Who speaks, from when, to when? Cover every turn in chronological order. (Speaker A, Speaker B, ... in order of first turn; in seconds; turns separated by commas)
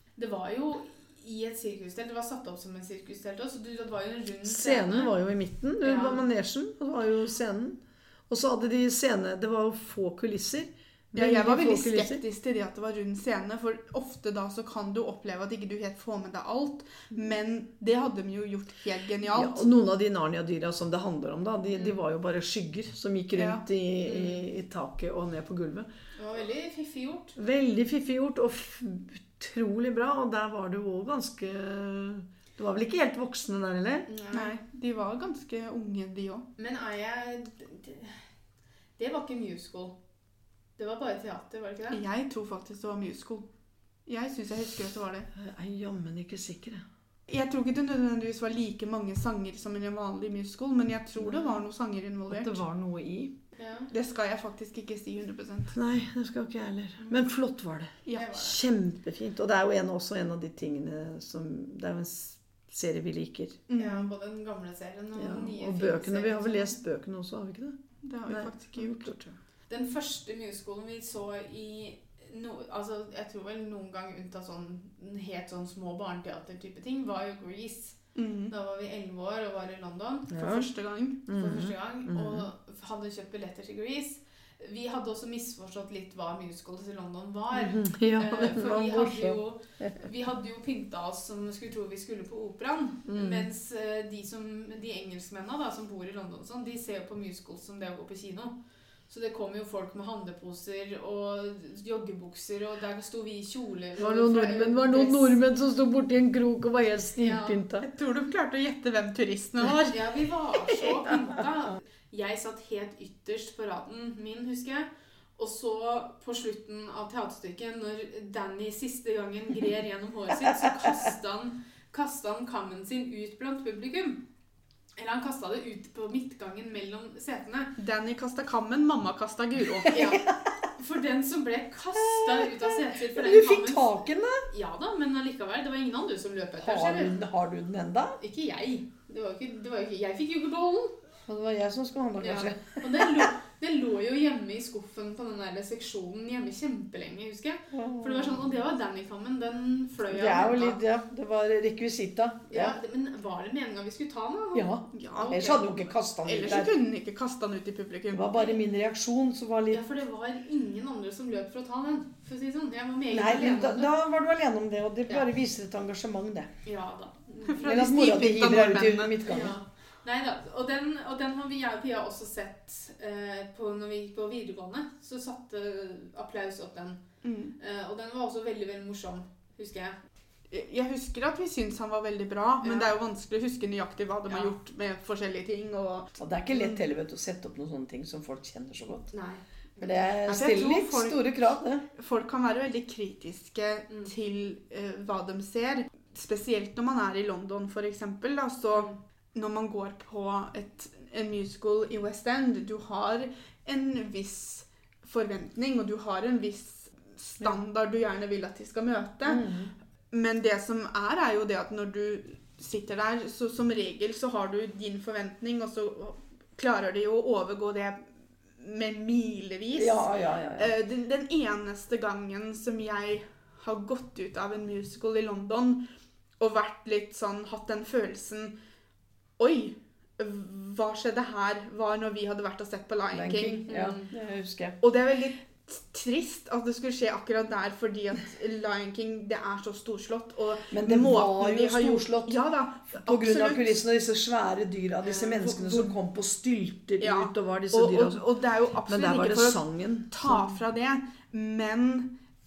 Speaker A: 0.2-5.1, Speaker B: 4.5-12.2, Speaker A: 5.8-6.2, Speaker C: 11.1-19.6, Speaker B: 19.3-25.9, Speaker C: 23.4-23.6, Speaker A: 24.1-24.4, Speaker A: 26.2-27.4, Speaker B: 27.4-34.1, Speaker A: 34.1-34.6, Speaker C: 34.3-36.5, Speaker A: 36.6-38.2, Speaker A: 39.0-40.0, Speaker A: 40.8-42.0, Speaker C: 41.9-43.5, Speaker C: 44.1-45.3, Speaker B: 45.3-46.8, Speaker C: 47.3-52.6, Speaker B: 51.2-51.5, Speaker B: 52.3-53.3, Speaker A: 53.6-53.9, Speaker C: 53.9-55.7, Speaker B: 55.7-63.6, Speaker C: 58.1-58.5, Speaker A: 58.1-58.5, Speaker C: 63.7-64.1, Speaker A: 63.8-66.8, Speaker B: 65.2-69.3, Speaker C: 68.0-69.1, Speaker A: 69.7-78.0, Speaker C: 78.2-78.5, Speaker A: 78.5-80.5, Speaker B: 80.3-80.7, Speaker C: 80.4-81.2, Speaker B: 81.3-82.5, Speaker A: 81.3-98.6, Speaker B: 87.5-90.0, Speaker B: 93.1-93.5, Speaker A: 99.1-105.4, Speaker B: 104.0-107.9, Speaker A: 107.2-107.6, Speaker C: 107.8-110.0, Speaker A: 109.8-124.2, Speaker B: 110.8-111.4, Speaker A: 125.0-127.7, Speaker C: 127.8-130.0, Speaker B: 129.8-130.5, Speaker A: 129.9-133.9, Speaker B: 131.9-134.5, Speaker A: 134.5-137.2, Speaker B: 136.6-138.2, Speaker A: 138.2-141.0, Speaker B: 141.3-143.3, Speaker A: 142.2-150.8, Speaker B: 147.7-148.4, Speaker B: 150.1-152.8, Speaker A: 152.5-155.8, Speaker B: 154.5-156.7, Speaker C: 154.9-155.4, Speaker C: 156.2-158.3, Speaker B: 158.1-159.8, Speaker A: 159.7-163.9, Speaker B: 163.1-166.5, Speaker A: 166.7-167.7, Speaker C: 167.4-169.2, Speaker B: 167.7-169.6, Speaker A: 169.3-177.0, Speaker C: 177.2-177.6, Speaker A: 177.6-180.0, Speaker C: 180.5-186.8, Speaker A: 182.6-182.9, Speaker B: 186.2-189.1, Speaker A: 189.1-190.6, Speaker B: 189.8-191.8, Speaker C: 190.3-191.2, Speaker C: 192.0-209.5, Speaker A: 198.7-199.0, Speaker B: 209.2-209.7, Speaker C: 210.1-225.8, Speaker B: 219.8-220.7, Speaker C: 226.4-228.5, Speaker C: 229.4-233.7, Speaker B: 233.1-234.8, Speaker A: 233.7-234.1, Speaker C: 234.8-243.8, Speaker B: 240.7-242.4, Speaker B: 242.9-248.3, Speaker A: 245.0-245.3, Speaker C: 245.3-246.0, Speaker C: 247.0-252.1, Speaker B: 248.9-250.6